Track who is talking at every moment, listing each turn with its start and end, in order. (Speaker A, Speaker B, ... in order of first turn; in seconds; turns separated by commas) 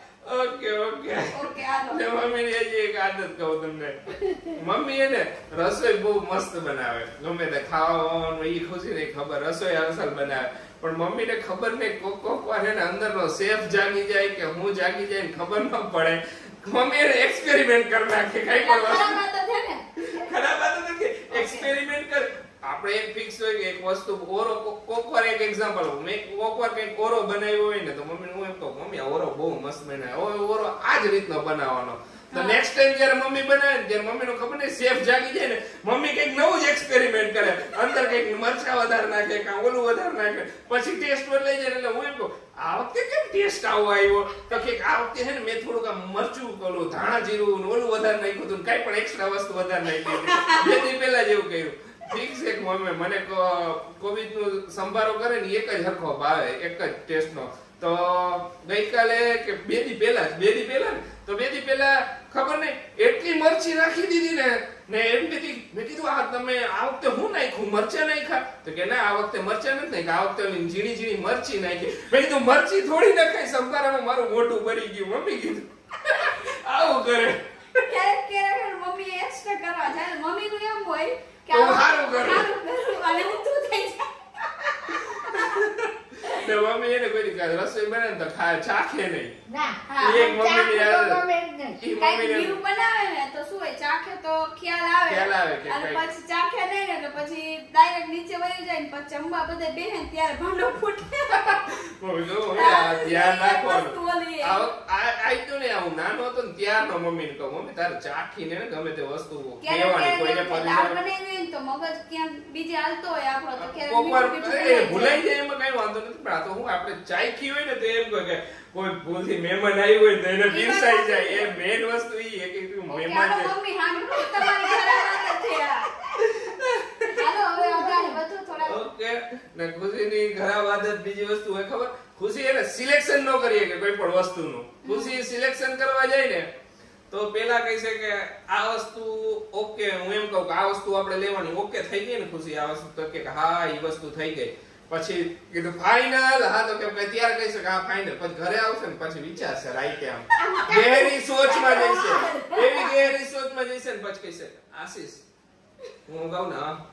Speaker A: 0.2-1.4, Speaker B: 1.3-2.0, Speaker A: 1.9-4.0, Speaker B: 4.1-4.5, Speaker A: 4.5-19.2, Speaker B: 18.6-20.3, Speaker A: 20.0-77.8, Speaker B: 21.3-21.7, Speaker B: 32.3-32.6, Speaker B: 50.1-50.8, Speaker B: 77.8-85.7, Speaker A: 81.5-82.5, Speaker A: 84.9-89.3, Speaker C: 89.5-91.8, Speaker B: 89.9-90.3, Speaker A: 90.0-91.2, Speaker A: 91.8-92.6, Speaker B: 92.0-101.7, Speaker A: 95.1-96.0, Speaker A: 101.3-111.0, Speaker B: 102.5-104.7, Speaker B: 109.6-115.2, Speaker A: 113.6-123.5, Speaker B: 120.5-121.5, Speaker B: 122.9-125.9, Speaker C: 124.7-125.0, Speaker A: 126.2-127.2, Speaker B: 127.1-128.8, Speaker C: 127.6-128.2, Speaker A: 128.7-136.5, Speaker B: 134.8-135.2, Speaker A: 137.1-155.2, Speaker C: 150.3-152.9, Speaker A: 156.1-156.8